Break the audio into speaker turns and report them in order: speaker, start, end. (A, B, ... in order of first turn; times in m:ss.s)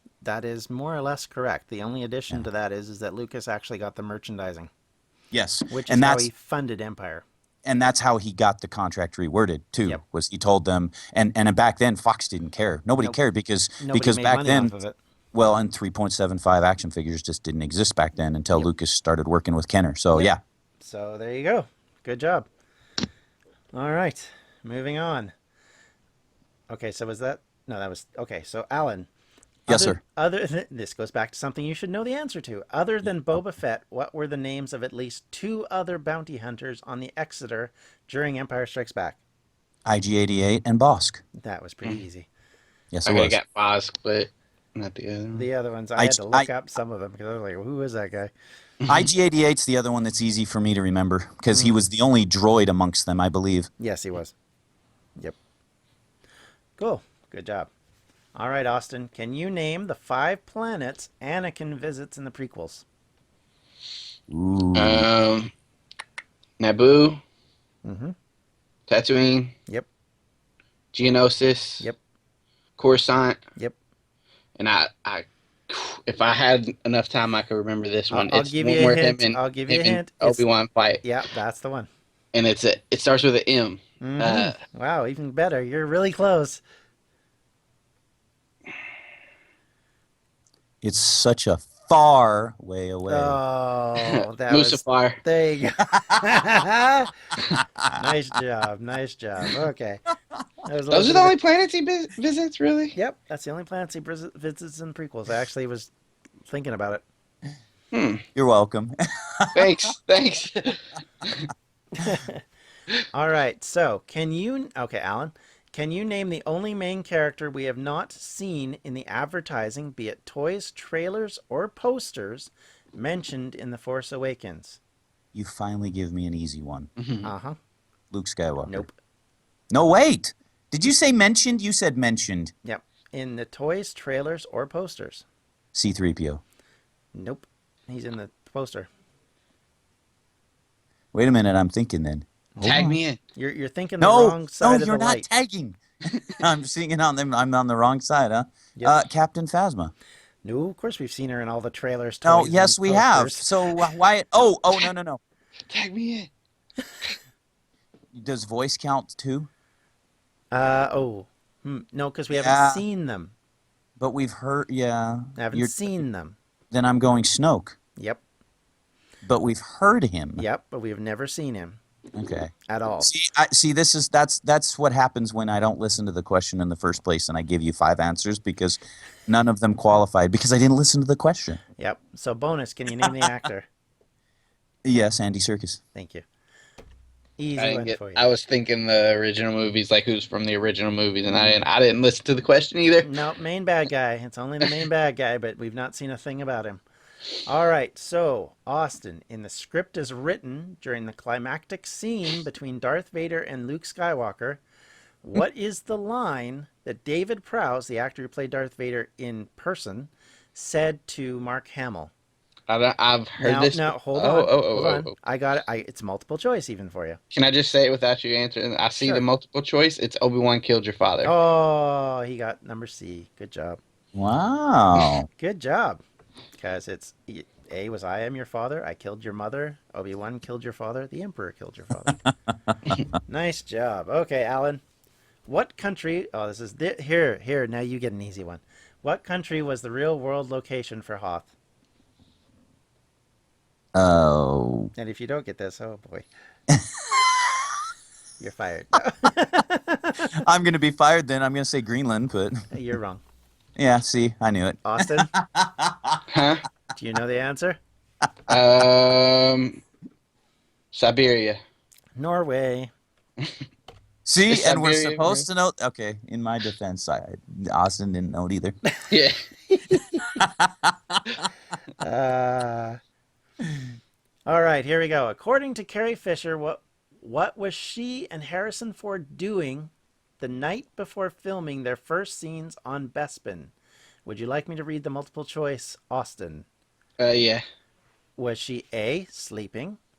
0:00.2-0:04.7 A
0:05.3-0:06.3 B
0:05.7-0:07.2 A
0:07.6-0:14.8 B
0:13.8-0:15.0 A
0:15.3-0:20.4 B
0:20.1-0:22.5 A
0:23.7-0:25.3 A
0:26.7-0:29.1 A
0:29.7-0:39.2 A
0:29.7-0:30.0 B
0:39.9-0:41.2 B
0:41.4-0:42.3 A
0:42.9-0:43.4 B
0:43.0-0:45.5 C
0:45.4-0:48.3 A
0:46.0-0:46.5 B
0:48.9-0:53.7 B
0:51.5-0:51.8 A
0:53.8-0:54.3 A
0:56.8-0:57.7 A
0:58.4-1:02.8 A
1:04.3-1:05.1 B
1:04.8-1:05.5 C
1:06.6-1:07.2 C
1:07.8-1:08.2 A
1:08.9-1:09.5 C
1:10.9-1:11.8 C
1:12.8-1:13.4 C
1:14.6-1:21.0 C
1:18.1-1:20.4 A
1:21.0-1:21.9 A
1:22.3-1:24.6 C
1:24.0-1:26.6 A
1:30.8-1:33.4 B
1:33.1-1:37.1 A
1:34.0-1:35.2 C
1:37.9-1:40.0 A
1:40.6-1:41.4 A
1:40.9-1:43.0 C
1:43.0-1:45.9 A
1:46.5-1:47.0 A
1:47.9-1:48.2 C
1:48.4-1:49.7 B
1:49.5-1:51.5 C
1:52.0-1:52.4 A
1:53.1-2:04.8 A
2:05.3-2:06.9 B
2:07.0-2:07.3 C
2:07.2-2:07.6 A
2:08.1-2:08.9 B
2:08.6-2:08.9 A
2:09.7-2:12.5 B
2:12.6-2:15.2 A
2:15.7-2:16.4 B
2:17.2-2:18.9 A
2:21.1-2:23.0 B
2:22.6-2:25.3 A
2:22.6-2:23.2 C
2:24.0-2:29.9 B
2:30.4-2:33.9 A
2:32.2-2:35.2 B
2:35.7-2:36.3 C
2:38.1-2:39.5 B
2:40.5-2:43.3 A
2:42.3-2:42.8 B
2:44.0-2:46.0 B
2:45.4-2:46.4 A
2:46.7-2:47.8 B
2:49.2-2:50.4 B
2:50.4-2:51.8 A
2:52.2-3:01.6 B
2:52.7-2:53.1 A
3:01.8-3:03.7 A
3:04.8-3:05.8 B
3:06.0-3:06.2 A
3:07.4-3:08.3 A
3:07.6-3:13.1 C
3:13.0-3:16.8 A
3:17.5-3:24.6 A
3:25.2-3:32.1 A
3:32.7-3:35.1 C
3:33.4-3:37.2 A
3:37.3-3:41.3 C
3:39.0-3:39.2 A
3:41.2-3:43.8 A
3:44.2-3:45.3 B
3:45.4-3:46.0 A
3:46.6-3:52.2 A
3:53.3-3:54.8 A
3:55.5-4:01.5 A
4:04.0-4:04.9 B
4:05.0-4:06.3 A
4:08.4-4:10.4 A
4:10.3-4:12.7 B
4:12.7-4:13.2 A
4:13.8-4:16.2 B
4:14.8-4:15.3 A
4:16.3-4:16.6 C
4:17.0-4:17.8 A
4:18.5-4:19.8 C
4:20.9-4:21.6 C
4:22.2-4:22.9 A
4:24.3-4:28.8 B
4:24.5-4:25.5 C
4:29.1-4:29.4 C
4:29.7-4:30.2 A
4:30.4-4:31.2 B
4:32.0-4:33.0 A
4:34.5-4:43.7 A
4:44.2-4:46.7 A
4:47.2-4:47.6 C
4:48.4-4:50.0 A